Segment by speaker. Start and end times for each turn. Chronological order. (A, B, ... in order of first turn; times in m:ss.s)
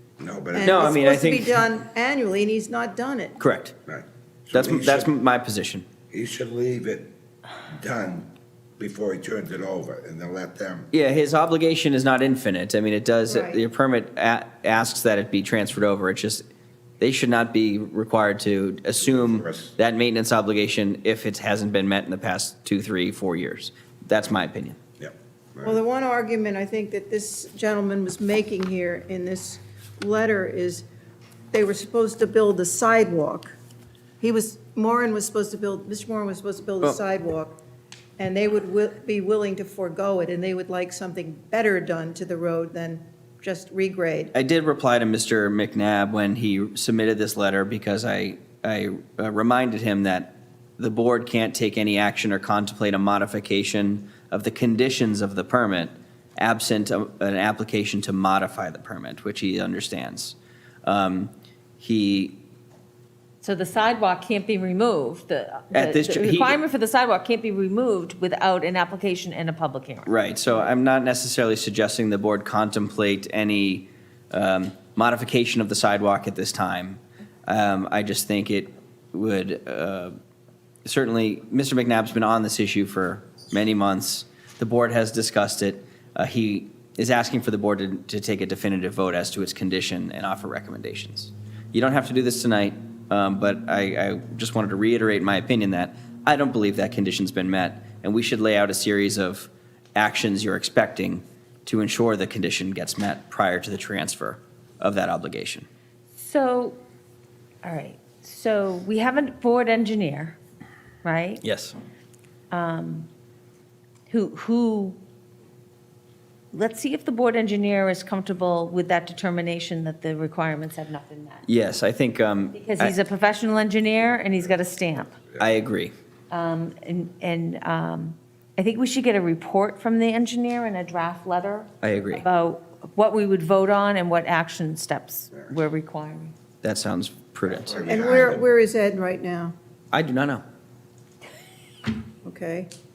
0:00.2-0:00.8 A
0:00.5-0:03.4 B
0:00.6-0:01.6 C
0:03.4-0:03.7 C
0:03.9-0:05.1 A
0:04.5-0:05.9 C
0:06.1-0:07.1 A
0:07.6-0:10.9 A
0:10.9-0:16.4 C
0:13.3-0:13.6 B
0:17.0-0:24.8 C
0:19.0-0:19.7 A
0:25.0-0:25.8 A
0:25.6-0:30.8 B
0:31.5-0:33.5 B
0:34.2-0:37.6 B
0:38.2-0:44.3 B
0:44.3-1:02.4 C
1:03.4-1:10.1 D
1:05.7-1:06.6 C
1:10.0-1:20.1 C
1:20.8-1:45.7 C
1:46.2-1:46.8 D
1:47.6-1:50.4 D
1:51.0-1:51.4 D
1:51.4-1:51.8 C
1:52.5-1:53.1 D
1:54.1-1:55.0 D
1:56.5-2:01.4 D
2:01.4-2:03.0 C
2:02.6-2:05.2 D
2:05.4-2:05.9 C
2:06.3-2:16.3 D
2:11.8-2:12.2 C
2:16.6-2:17.7 C
2:17.5-2:18.4 A
2:17.8-2:19.5 B
2:19.9-2:20.4 C
2:22.2-2:22.7 B